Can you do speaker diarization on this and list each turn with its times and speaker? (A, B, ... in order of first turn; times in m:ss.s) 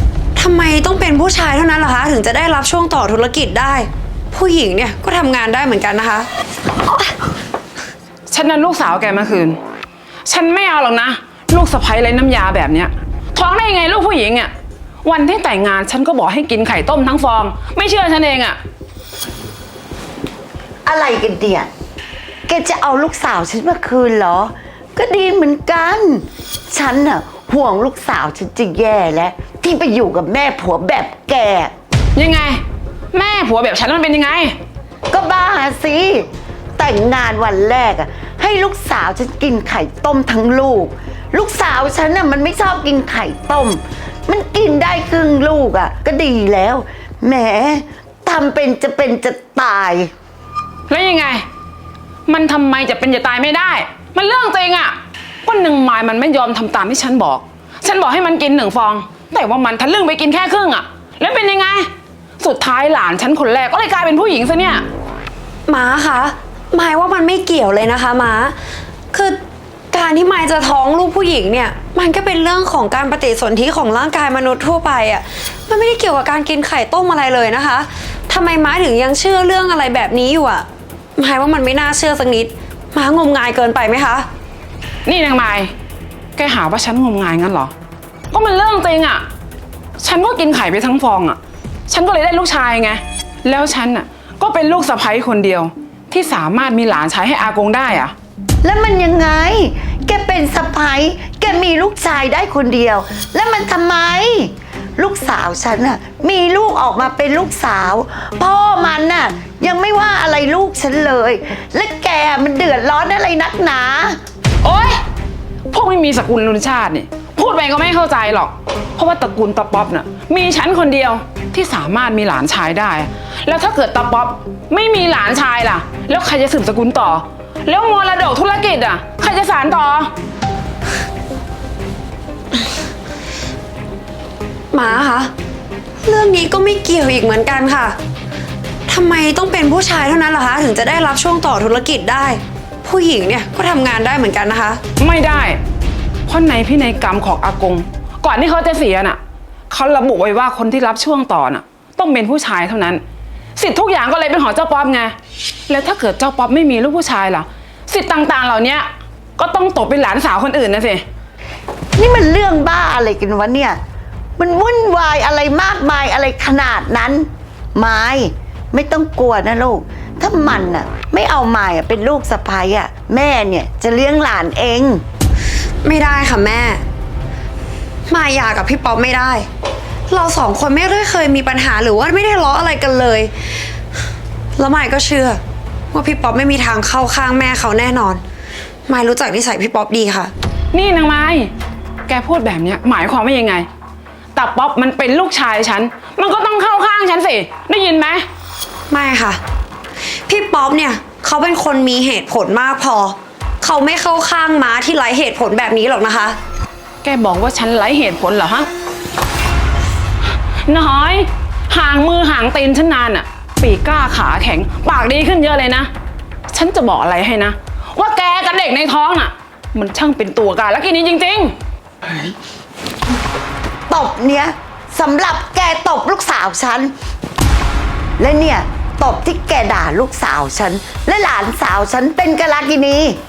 0:00.4-0:06.3 A
0:06.8-0:07.1 A
0:08.3-0:09.6 B
0:10.3-0:14.5 B
0:15.0-0:18.6 B
0:20.9-0:21.7 C
0:22.5-0:31.7 C
0:32.2-0:32.6 B
0:33.1-0:34.6 B
0:35.1-0:36.3 C
0:36.8-0:50.1 C
0:50.9-0:51.4 B
0:52.3-1:01.9 B
1:02.4-1:04.8 B
1:05.7-1:08.6 A
1:09.1-1:09.4 A
1:09.9-1:20.7 A
1:21.2-1:24.3 A
1:25.1-1:25.7 B
1:26.4-1:27.7 B
1:28.3-1:29.2 B
1:30.0-1:38.1 B
1:38.6-1:54.2 C
1:54.6-1:55.0 B
1:55.7-2:10.1 B
2:14.7-2:15.3 A
2:16.0-2:18.0 A
2:18.9-2:24.8 A
2:25.0-2:25.6 B
2:26.3-2:29.2 B
2:29.7-2:33.0 B
2:33.6-2:35.1 B
2:35.7-2:41.0 B
2:42.0-2:43.8 C
2:44.4-2:55.0 C
2:55.8-2:56.8 A
2:58.1-2:59.5 A
3:00.1-3:03.3 A
3:04.6-3:05.4 A
3:05.9-3:08.2 A
3:08.9-3:10.3 A
3:10.7-3:11.5 B
3:12.1-3:13.7 B
3:14.3-3:18.2 B
3:18.9-3:19.4 A
3:20.3-3:26.4 A
3:27.0-3:28.7 B
3:30.7-3:35.9 B
3:36.5-3:41.5 B
3:43.9-3:46.9 C
3:48.2-3:53.2 C